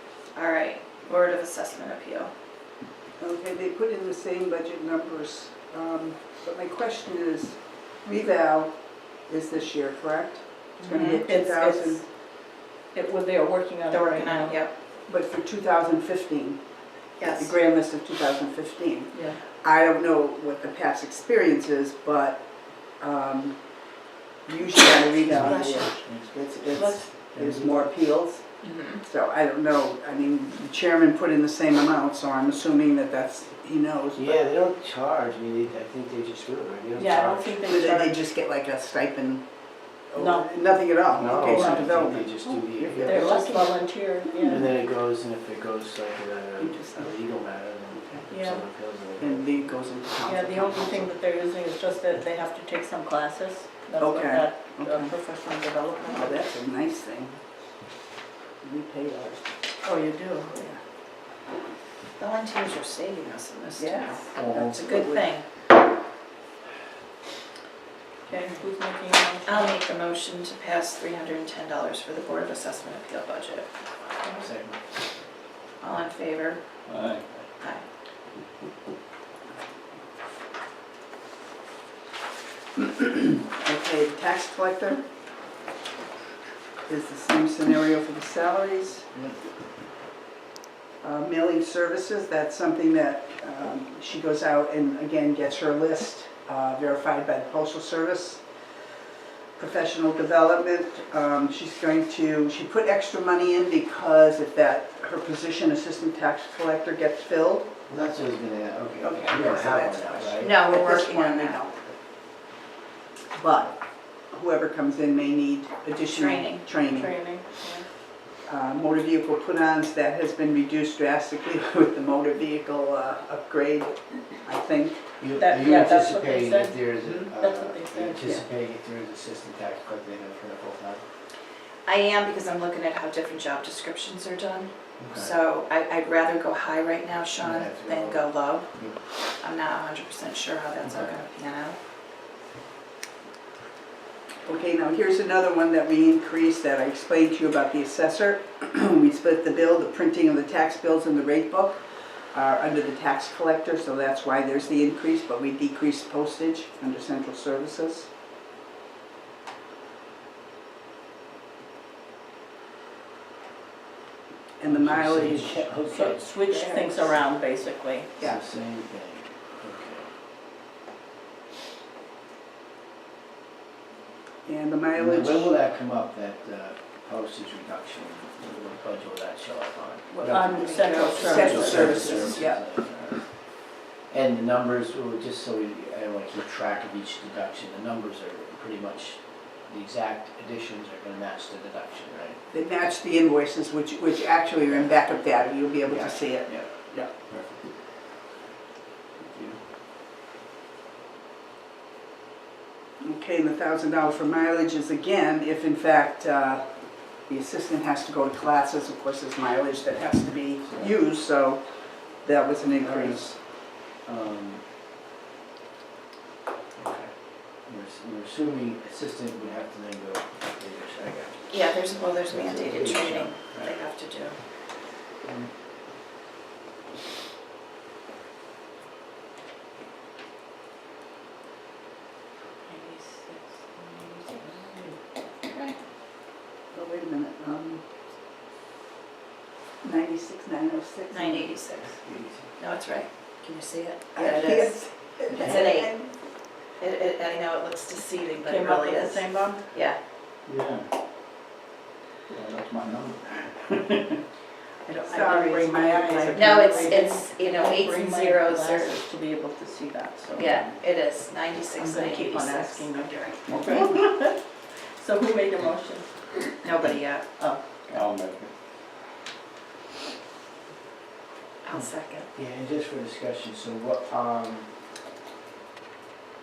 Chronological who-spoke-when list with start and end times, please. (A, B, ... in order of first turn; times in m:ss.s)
0:00.3-0:02.3 A
0:03.2-0:12.0 B
0:10.8-0:11.2 A
0:10.8-0:12.3 C
0:12.9-0:14.6 C
0:13.9-0:14.7 A
0:15.1-0:16.6 B
0:17.2-0:17.5 A
0:17.2-0:22.5 B
0:19.1-0:19.4 C
0:23.0-0:23.6 B
0:24.4-0:34.4 B
0:25.5-0:25.8 A
0:26.8-0:27.0 C
0:27.4-0:27.9 D
0:28.6-0:29.0 A
0:34.2-0:37.6 D
0:37.0-0:38.2 C
0:37.7-0:39.5 B
0:40.1-0:43.4 B
0:40.2-0:40.5 C
0:41.1-0:43.6 D
0:41.3-0:42.0 C
0:43.0-0:44.7 C
0:44.4-0:49.6 D
0:46.6-0:47.2 B
0:48.0-0:48.3 B
0:48.3-0:48.6 C
0:49.2-0:51.0 B
0:50.2-0:55.2 C
0:54.0-0:57.4 B
0:58.6-0:59.5 B
0:59.8-1:00.6 C
1:00.5-1:00.8 B
1:02.2-1:05.5 A
1:03.8-1:05.3 B
1:04.3-1:04.8 D
1:08.3-1:09.8 C
1:09.5-1:13.7 A
1:14.3-1:14.8 D
1:15.8-1:16.6 A
1:16.9-1:17.3 E
1:22.8-1:25.0 B
1:26.9-1:29.1 B
1:31.0-1:38.4 B
1:39.6-1:47.7 B
1:47.9-1:50.6 D
1:49.0-1:51.9 B
1:50.4-1:51.6 A
1:53.4-1:53.8 B
1:54.3-1:57.4 B
1:56.1-1:56.6 A
1:56.8-1:57.9 C
1:58.5-2:05.1 B
2:05.2-2:11.0 D
2:05.4-2:08.2 C
2:11.9-2:18.7 A
2:15.0-2:15.3 D
2:17.4-2:19.0 D
2:19.4-2:21.8 A
2:20.9-2:21.2 D
2:24.5-2:38.1 B
2:44.6-2:45.7 B
2:44.6-2:46.3 D
2:45.9-2:48.1 C
2:46.5-2:47.1 B
2:48.2-2:50.1 D
2:54.4-2:55.5 B
2:55.0-3:00.6 D
3:00.1-3:02.6 B
3:00.2-3:02.4 C
3:00.5-3:01.8 A
3:01.3-3:12.4 D
3:12.5-3:17.1 B
3:14.7-3:15.0 D
3:15.8-3:17.8 D
3:19.2-3:19.6 D
3:23.0-3:26.7 B
3:27.2-3:31.6 B
3:32.2-3:33.4 B
3:32.7-3:34.6 D
3:36.8-3:41.6 D
3:41.5-3:44.4 A
3:42.3-3:43.7 D
3:45.2-3:45.5 D
3:52.7-3:55.0 C
3:55.4-3:55.8 A
3:56.7-3:57.8 B
3:59.8-4:01.5 B
4:01.1-4:02.0 A
4:02.0-4:02.5 D
4:02.6-4:06.2 A
4:04.2-4:06.1 B
4:06.8-4:10.0 A
4:08.4-4:09.6 C
4:10.5-4:10.9 E
4:12.3-4:14.1 E
4:14.9-4:20.7 C
4:15.0-4:17.0 B
4:16.3-4:19.0 A
4:20.4-4:23.4 A
4:21.8-4:26.5 C
4:23.5-4:24.0 E
4:26.6-4:27.4 A
4:27.4-4:28.0 C
4:27.9-4:28.5 E
4:31.6-4:32.3 A
4:32.4-4:34.7 D